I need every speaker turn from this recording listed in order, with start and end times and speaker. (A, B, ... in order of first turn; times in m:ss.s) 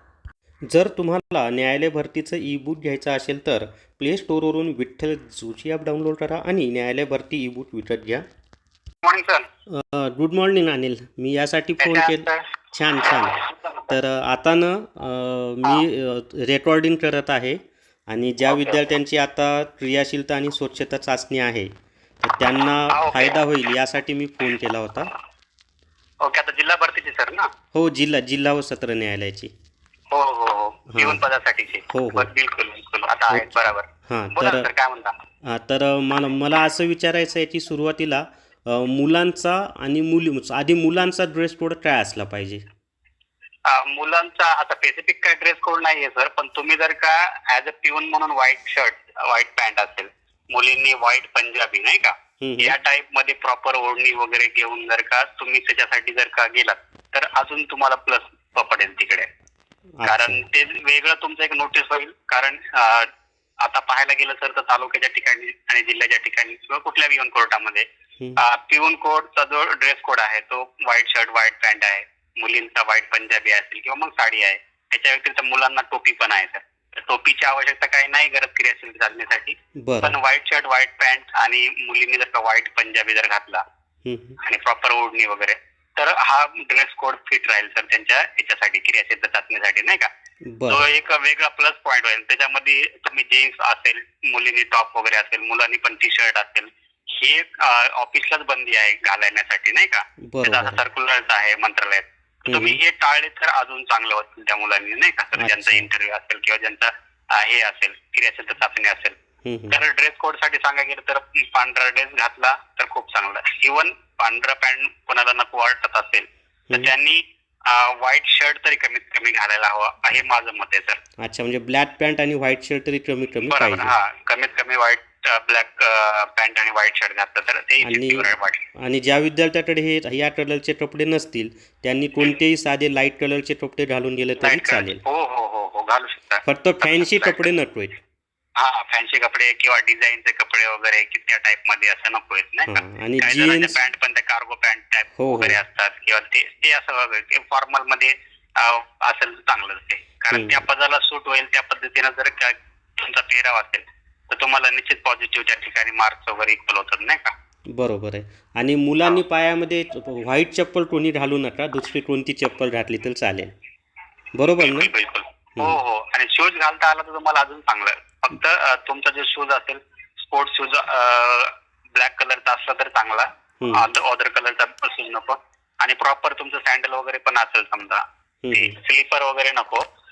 0:00.7-0:08.2 A
0:09.0-0:09.5 B
0:09.7-0:13.4 A
0:11.8-0:12.4 B
0:13.9-0:21.7 A
0:22.2-0:25.1 A
0:22.9-0:23.4 B
0:26.2-0:27.5 B
0:27.7-0:29.5 A
0:30.1-0:35.1 B
0:30.9-0:31.2 A
0:31.9-0:32.3 A
0:33.3-0:34.7 A
0:35.4-0:42.6 A
0:43.7-0:59.3 B
0:52.4-0:52.8 A
1:00.0-1:00.4 A
1:00.0-1:03.1 B
1:03.6-1:07.8 B
1:08.4-1:23.6 B
1:19.8-1:20.2 A
1:24.0-1:24.4 A
1:24.4-1:30.1 B
1:30.5-1:30.9 A
1:30.7-1:49.2 B
1:40.3-1:40.8 A
1:42.5-1:42.8 A
1:45.4-1:45.8 A
1:49.4-1:49.8 A
1:49.7-2:01.0 B
2:01.2-2:03.9 A
2:03.5-2:08.7 B
2:07.8-2:08.3 A
2:08.8-2:15.0 A
2:14.4-2:17.4 B
2:16.4-2:18.0 A
2:18.6-2:37.3 B
2:22.7-2:23.8 A
2:25.2-2:25.6 A
2:30.3-2:30.6 A
2:37.7-2:43.5 A
2:44.4-2:44.9 A
2:44.6-2:59.8 B
2:53.6-2:53.9 A
2:58.4-2:58.8 A